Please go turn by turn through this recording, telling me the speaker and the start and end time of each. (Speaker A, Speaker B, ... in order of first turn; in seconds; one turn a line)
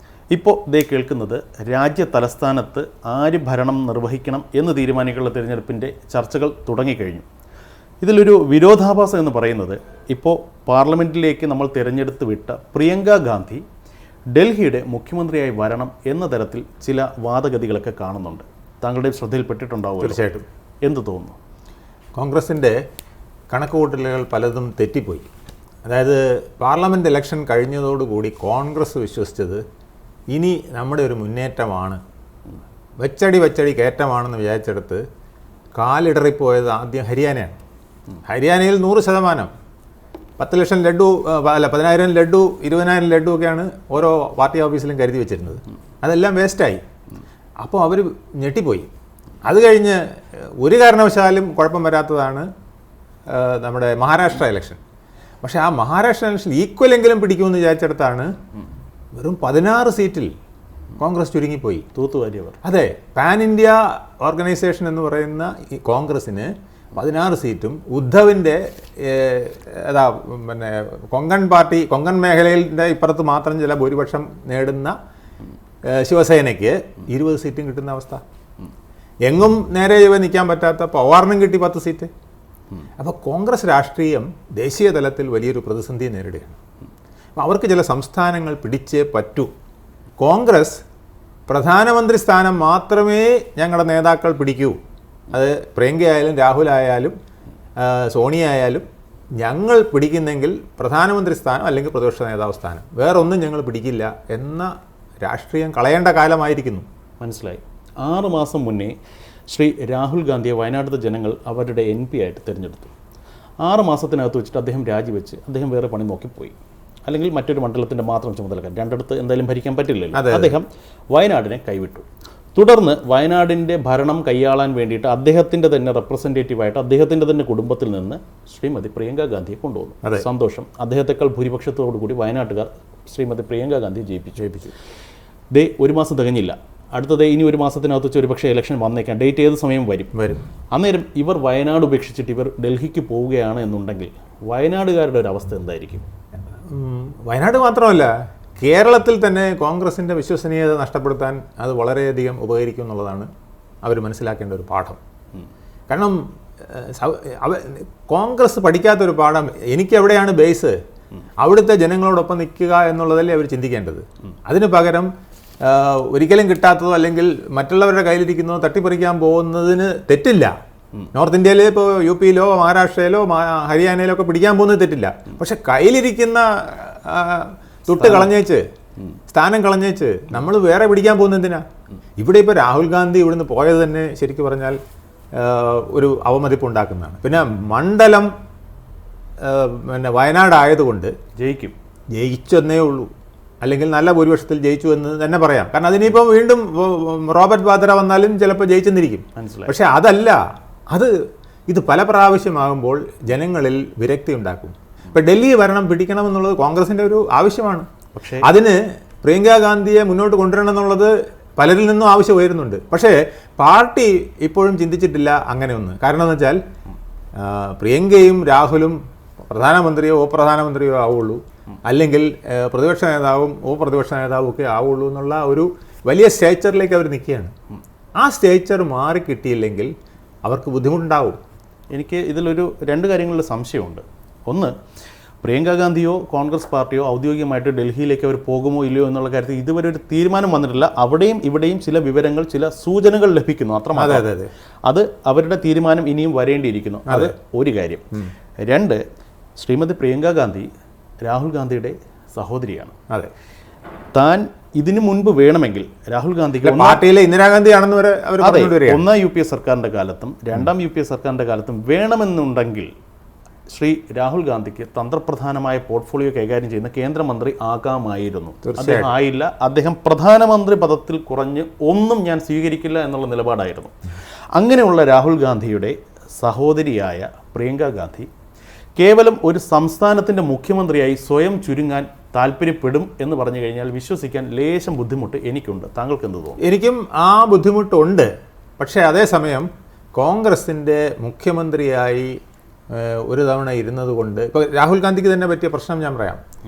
Speaker A: 0.3-7.3
Speaker A: 8.0-13.6
Speaker A: 14.3-20.2
Speaker B: 20.0-20.4
Speaker A: 20.8-21.4
Speaker B: 22.2-22.8
Speaker B: 23.5-25.3
Speaker B: 25.9-29.6
Speaker B: 30.3-32.0
Speaker B: 33.0-35.0
Speaker B: 35.8-37.6
Speaker B: 38.3-39.5
Speaker B: 40.4-46.8
Speaker B: 47.6-48.9
Speaker B: 49.4-52.5
Speaker B: 53.3-54.8
Speaker B: 55.4-58.3
Speaker B: 59.2-60.3
Speaker B: 61.0-61.9
Speaker A: 62.0-62.6
Speaker B: 62.6-75.0
Speaker B: 75.8-78.2
Speaker B: 79.2-82.1
Speaker B: 83.0-86.6
Speaker B: 87.4-89.5
Speaker B: 90.2-90.8
Speaker B: 91.5-94.8
Speaker B: 95.3-97.2
Speaker B: 97.8-98.8
Speaker B: 99.4-104.7
Speaker B: 105.2-106.9
Speaker A: 107.2-109.0
Speaker A: 109.5-112.9
Speaker A: 113.6-116.5
Speaker A: 117.1-134.6
Speaker B: 120.1-120.5
Speaker B: 134.4-134.7
Speaker A: 135.5-140.1
Speaker B: 140.1-140.4
Speaker A: 140.7-146.1
Speaker B: 146.7-153.3
Speaker B: 153.8-155.0
Speaker B: 155.9-160.8
Speaker B: 161.4-165.1
Speaker B: 165.6-170.5
Speaker B: 171.1-178.7
Speaker B: 179.3-181.7
Speaker B: 182.2-184.8
Speaker B: 185.3-188.3
Speaker B: 189.4-191.2
Speaker A: 191.4-191.8
Speaker B: 192.1-193.1
Speaker B: 193.6-201.1
Speaker A: 199.4-199.8
Speaker B: 201.7-207.9
Speaker A: 208.2-208.5
Speaker B: 208.4-216.6
Speaker B: 217.4-227.5
Speaker B: 228.2-229.9
Speaker B: 230.4-231.4
Speaker A: 231.9-234.8
Speaker A: 235.4-244.2
Speaker B: 243.9-244.5
Speaker A: 244.9-249.0
Speaker B: 247.1-247.3
Speaker A: 249.6-250.7
Speaker A: 251.2-253.0
Speaker A: 254.1-257.0
Speaker B: 256.6-259.1
Speaker A: 258.4-262.9
Speaker A: 263.7-274.0
Speaker B: 268.6-269.1
Speaker A: 274.6-278.3
Speaker A: 279.0-286.6
Speaker B: 286.6-292.4
Speaker B: 292.9-296.4